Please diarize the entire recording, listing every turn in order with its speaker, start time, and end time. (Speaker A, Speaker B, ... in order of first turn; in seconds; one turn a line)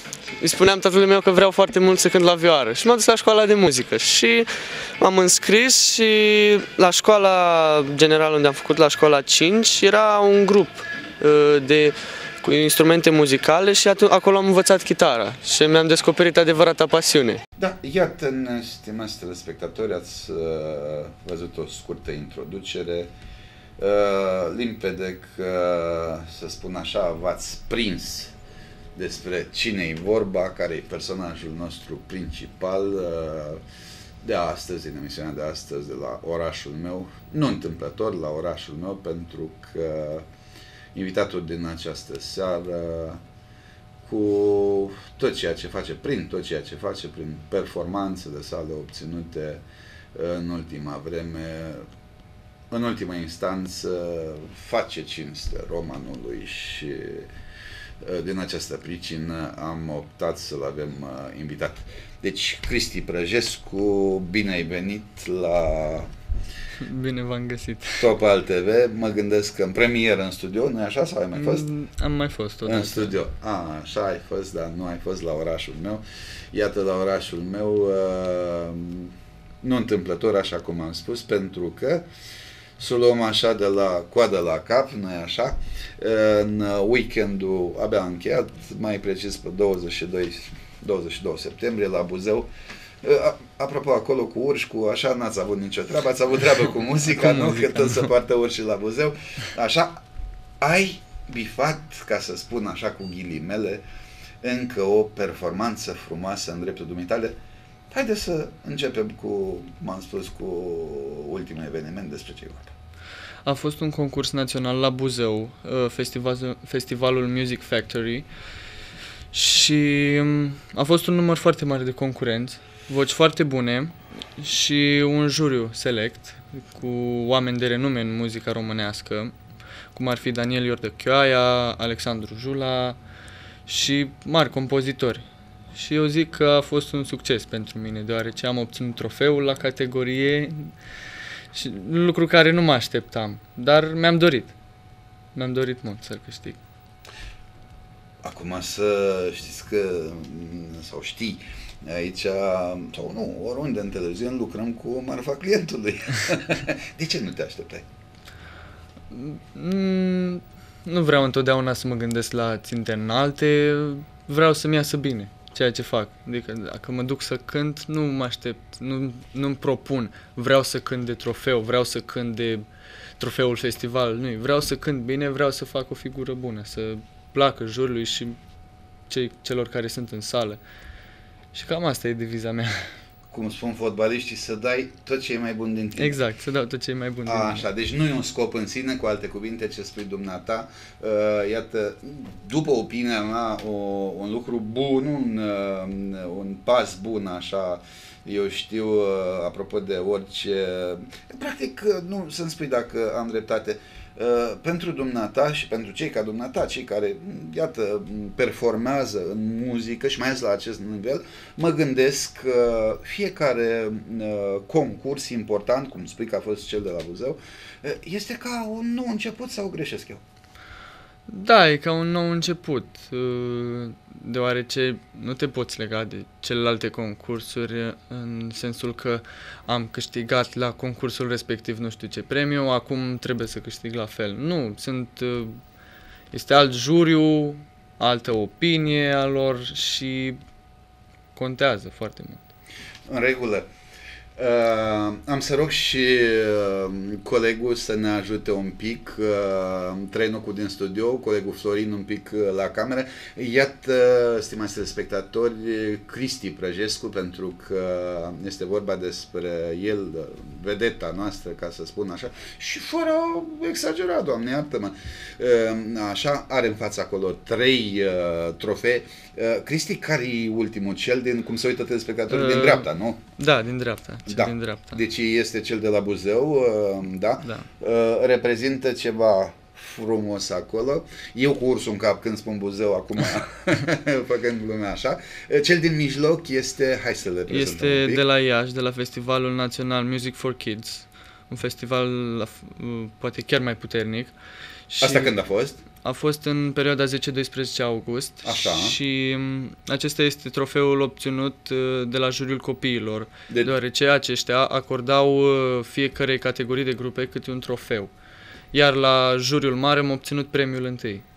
Speaker A: 0.4-17.4
Speaker B: 17.6-23.1
Speaker B: 23.8-28.3
Speaker B: 28.9-33.6
Speaker B: 34.2-40.3
Speaker B: 40.9-43.2
Speaker B: 44.0-51.9
Speaker B: 52.7-57.3
Speaker B: 58.0-66.1
Speaker C: 66.8-68.1
Speaker B: 68.0-71.7
Speaker C: 71.3-73.2
Speaker B: 72.6-82.0
Speaker B: 82.8-92.5
Speaker B: 93.0-100.0
Speaker C: 97.2-97.9
Speaker B: 100.6-103.8
Speaker B: 104.4-107.3
Speaker B: 107.9-112.7
Speaker C: 113.4-118.2
Speaker C: 119.3-129.3
Speaker C: 129.9-133.0
Speaker C: 133.7-140.7
Speaker C: 141.5-144.5
Speaker C: 145.3-146.6
Speaker B: 148.2-157.8
Speaker C: 159.1-172.7
Speaker C: 173.2-178.4
Speaker C: 179.1-180.6
Speaker C: 181.5-182.9
Speaker B: 183.3-186.2
Speaker C: 186.0-187.7
Speaker B: 187.2-220.2
Speaker C: 221.3-235.6
Speaker C: 236.3-240.4
Speaker C: 241.3-242.5
Speaker B: 243.1-243.7
Speaker B: 244.4-273.2
Speaker C: 272.3-275.0
Speaker B: 274.3-288.2
Speaker C: 287.5-294.3
Speaker C: 294.9-295.3
Speaker B: 295.0-295.8
Speaker C: 296.0-308.1
Speaker B: 298.4-298.9
Speaker C: 308.7-311.2